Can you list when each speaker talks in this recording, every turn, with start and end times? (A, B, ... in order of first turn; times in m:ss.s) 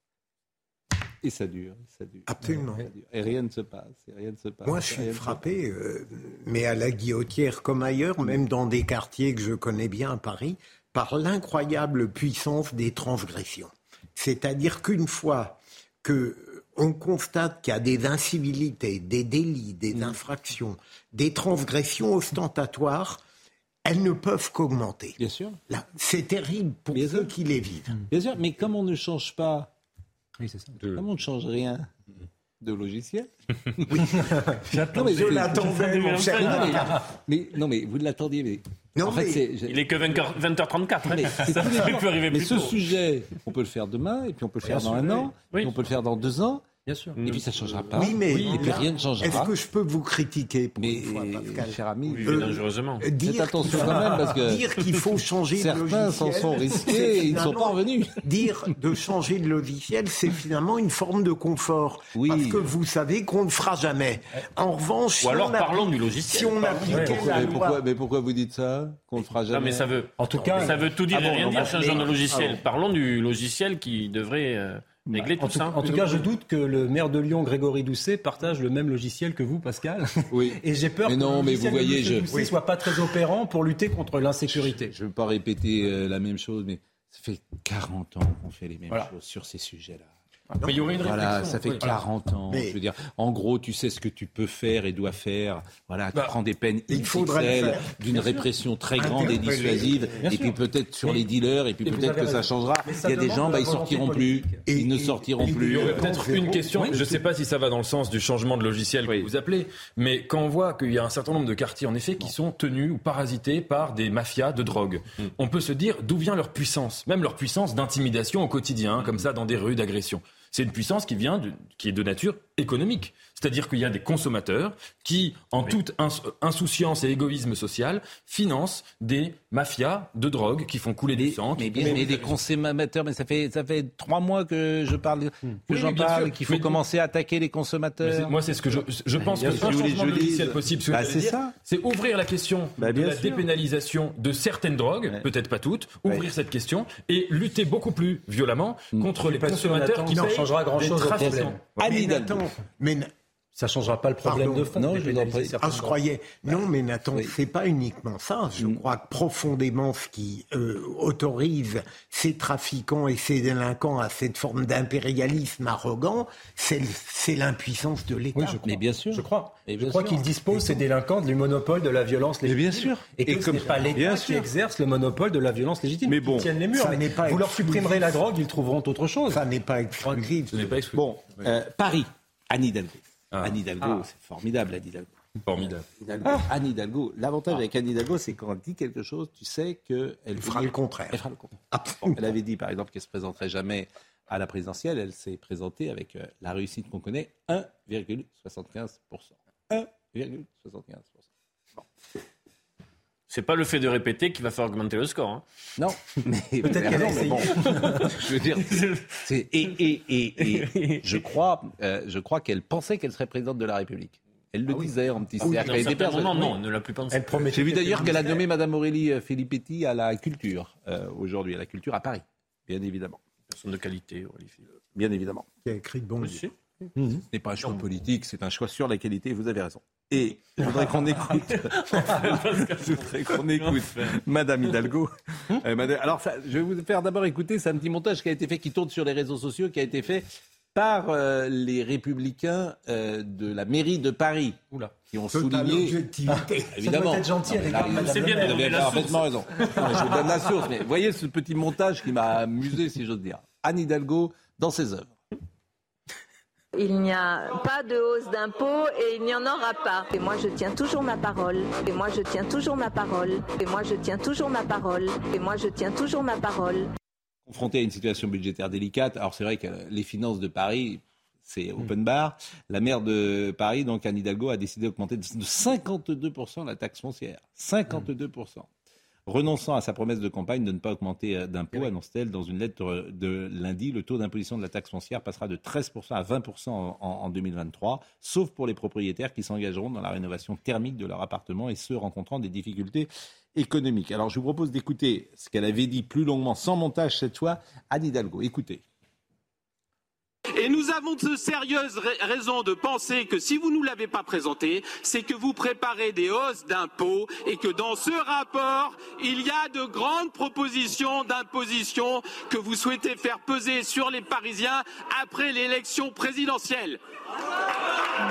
0:01.2-0:05.4 A
0:02.3-0:02.9 B
0:04.6-0:23.2 B
0:23.8-0:25.2 B
0:25.2-0:25.6 A
0:25.7-0:27.9 B
0:26.9-0:27.3 A
0:28.1-0:29.7 A
0:30.4-0:30.7 C
0:30.9-0:31.9 A
0:32.6-0:39.9 A
0:33.9-0:34.2 B
0:34.7-0:35.7 C
0:34.9-0:37.0 B
0:35.6-0:36.8 D
0:36.5-0:36.8 C
0:38.9-0:39.4 B
0:39.7-0:42.8 D
0:41.1-0:46.6 A
0:44.7-0:45.3 C
0:45.5-0:45.8 D
0:46.8-0:47.2 C
0:47.2-0:48.0 D
0:47.2-0:49.5 A
0:47.9-1:07.8 B
0:48.3-0:48.7 E
0:50.8-0:52.5 A
0:52.0-0:53.1 D
0:53.2-0:54.6 A
0:55.6-0:58.2 A
1:02.1-1:02.7 A
1:05.2-1:07.6 D
1:06.9-1:07.3 C
1:06.9-1:09.9 A
1:09.5-1:16.3 D
1:10.2-1:11.8 C
1:11.3-1:12.1 B
1:11.3-1:12.5 A
1:15.2-1:24.9 C
1:20.3-1:22.3 A
1:24.5-1:30.1 A
1:30.6-1:31.1 B
1:30.6-1:32.0 E
1:30.9-1:46.1 A
1:32.5-1:32.8 B
1:36.9-1:38.4 B
1:39.0-1:40.1 B
1:40.2-1:41.2 C
1:41.8-1:44.6 C
1:44.7-1:46.6 B
1:45.6-2:12.3 E
1:46.7-1:47.1 C
2:11.2-2:21.5 A
2:15.7-2:16.8 E
2:18.0-2:31.8 E
2:22.8-2:23.4 A
2:29.2-2:31.6 C
2:31.8-2:32.4 A
2:31.8-2:33.1 B
2:33.6-2:36.0 C
2:34.2-2:34.7 B
2:34.7-2:35.6 A
2:35.6-2:48.6 B
2:48.3-2:59.4 C
2:48.6-2:50.2 A
2:50.5-2:50.8 B
2:52.4-2:54.5 A
2:56.1-2:56.5 A
2:56.7-2:58.2 B
2:59.3-3:00.7 B
3:00.5-3:01.0 E
3:00.9-3:05.2 A
3:03.3-3:03.6 E
3:05.4-3:05.8 E
3:06.0-3:21.8 A
3:10.3-3:12.3 B
3:23.3-3:25.4 D
3:25.8-3:36.6 A
3:26.6-3:28.1 C
3:28.6-3:29.2 D
3:30.4-3:31.2 D
3:35.4-3:38.1 D
3:35.4-3:35.9 C
3:37.1-3:38.4 C
3:37.5-3:43.2 A
3:43.5-3:44.7 D
3:44.9-3:45.4 A
3:45.6-3:46.4 B
3:46.2-3:46.5 D
3:47.0-3:47.2 C
3:47.3-4:06.0 A
3:51.2-3:54.2 D
4:05.3-4:06.7 B
4:06.3-4:08.8 C
4:06.7-4:15.2 A
4:07.9-4:09.6 D
4:09.9-4:10.2 C
4:16.8-4:26.9 F
4:27.5-4:38.7 A
4:39.2-4:58.8 A
5:00.5-5:17.0 G